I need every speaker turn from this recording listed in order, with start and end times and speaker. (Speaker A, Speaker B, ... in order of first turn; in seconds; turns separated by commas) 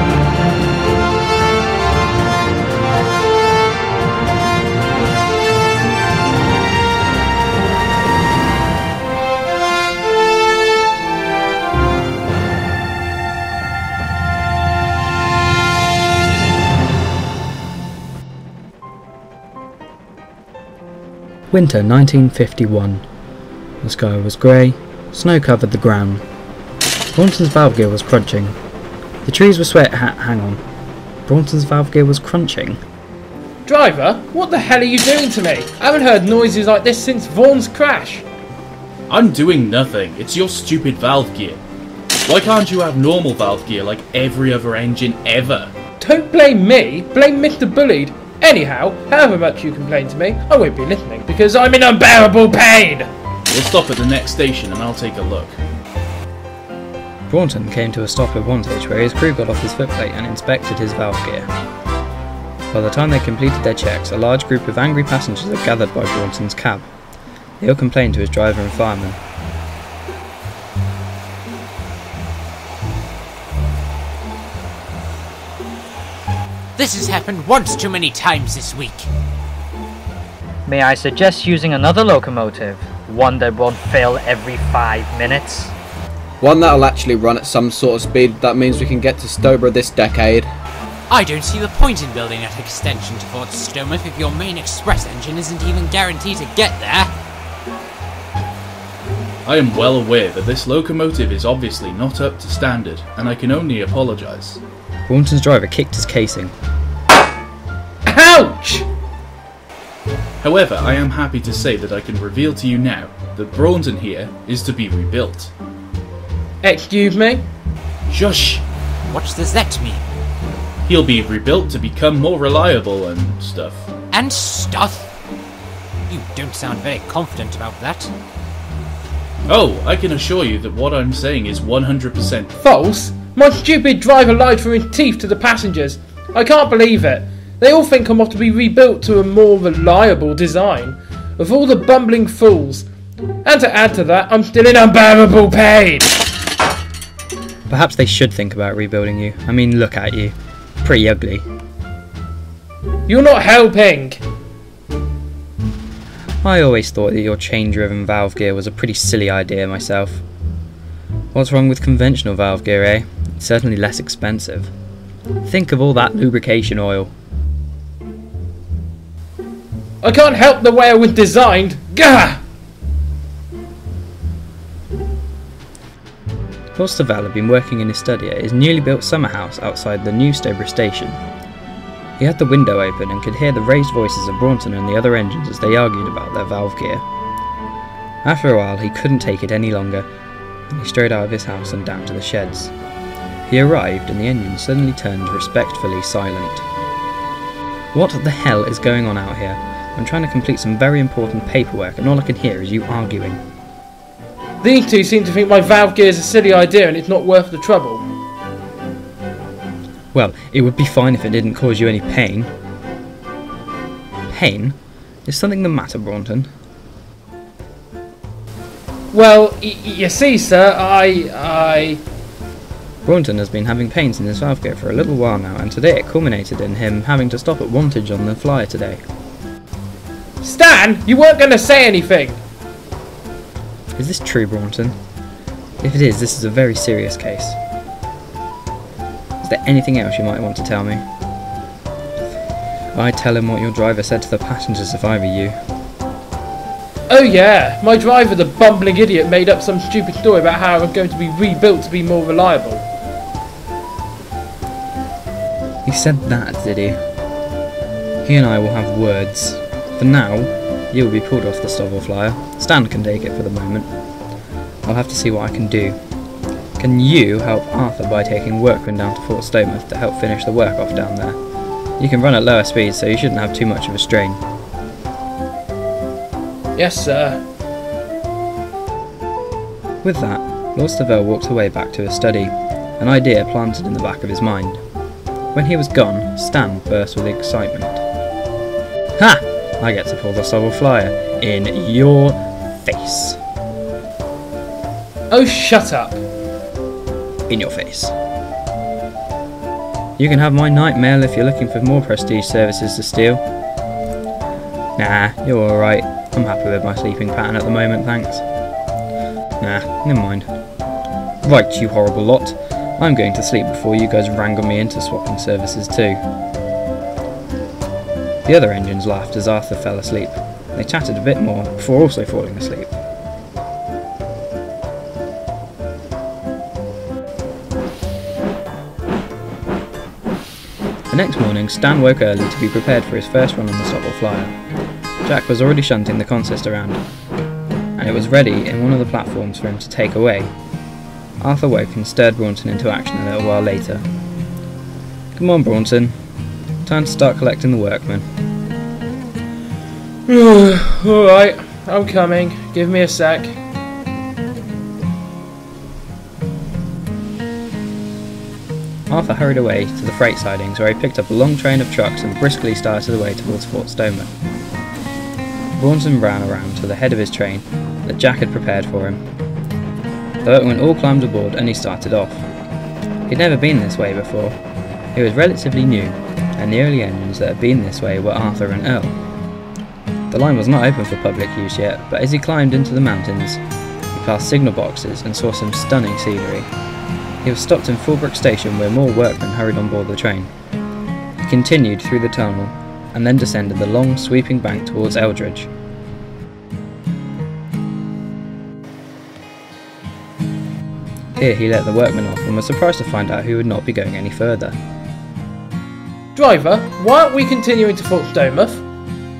Speaker A: 21.5-23.0, Speaker A: 23.8-26.2, Speaker A: 27.1-28.6, Speaker A: 29.2-30.6, Speaker A: 31.2-32.8, Speaker B: 33.6-38.2, Speaker C: 39.1-41.6, Speaker C: 42.2-45.7, Speaker B: 46.0-53.1, Speaker C: 53.5-55.6, Speaker A: 57.3-61.5, Speaker A: 62.7-66.9, Speaker A: 67.6-69.2, Speaker D: 76.8-79.1, Speaker E: 80.7-85.7, Speaker F: 86.4-90.5, Speaker D: 91.1-97.1, Speaker C: 99.4-104.6, Speaker A: 105.1-106.5, Speaker B: 108.0-108.8, Speaker C: 110.4-115.5, Speaker B: 116.6-117.5, Speaker C: 118.1-118.6, Speaker D: 119.1-120.0, Speaker C: 120.8-123.9, Speaker D: 124.1-125.1, Speaker D: 126.1-128.1, Speaker C: 129.5-132.5, Speaker B: 132.6-142.8, Speaker B: 143.4-146.1, Speaker A: 147.7-151.5, Speaker B: 153.1-154.2, Speaker A: 156.4-160.2, Speaker A: 161.3-164.7, Speaker A: 165.4-167.1, Speaker B: 170.0-172.4, Speaker A: 176.8-181.2, Speaker A: 182.2-187.0, Speaker A: 188.2-190.1, Speaker A: 190.7-192.7, Speaker A: 193.5-196.7, Speaker A: 197.9-203.4, Speaker B: 204.6-208.1, Speaker A: 210.1-212.5, Speaker A: 214.3-216.5, Speaker B: 219.1-222.0, Speaker A: 223.0-229.0, Speaker B: 230.4-232.4, Speaker A: 233.9-235.0, Speaker A: 235.8-237.6, Speaker A: 239.4-241.0, Speaker A: 242.9-245.6, Speaker B: 247.1-252.8, Speaker A: 255.8-257.0, Speaker A: 258.2-263.9, Speaker A: 264.8-266.0, Speaker A: 266.8-271.4, Speaker A: 272.0-274.4, Speaker B: 276.7-277.4, Speaker A: 280.0-284.8, Speaker A: 285.5-288.0, Speaker A: 289.2-293.4, Speaker B: 295.3-296.2, Speaker A: 297.5-298.1, Speaker A: 300.2-303.4, Speaker A: 305.0-308.4, Speaker A: 309.6-310.5, Speaker A: 311.4-316.2, Speaker A: 318.4-322.9, Speaker A: 331.1-334.5, Speaker A: 335.2-337.0, Speaker A: 338.0-340.5, Speaker A: 341.4-344.0, Speaker A: 345.4-346.1, Speaker A: 346.8-348.3, Speaker B: 350.3-353.5, Speaker A: 359.1-364.3, Speaker A: 365.8-369.2, Speaker A: 370.4-372.5, Speaker A: 373.3-374.6, Speaker A: 375.1-379.1, Speaker A: 380.3-383.6, Speaker A: 384.1-386.7, Speaker A: 387.4-390.5, Speaker A: 391.4-395.7, Speaker A: 401.4-404.8, Speaker B: 406.3-408.8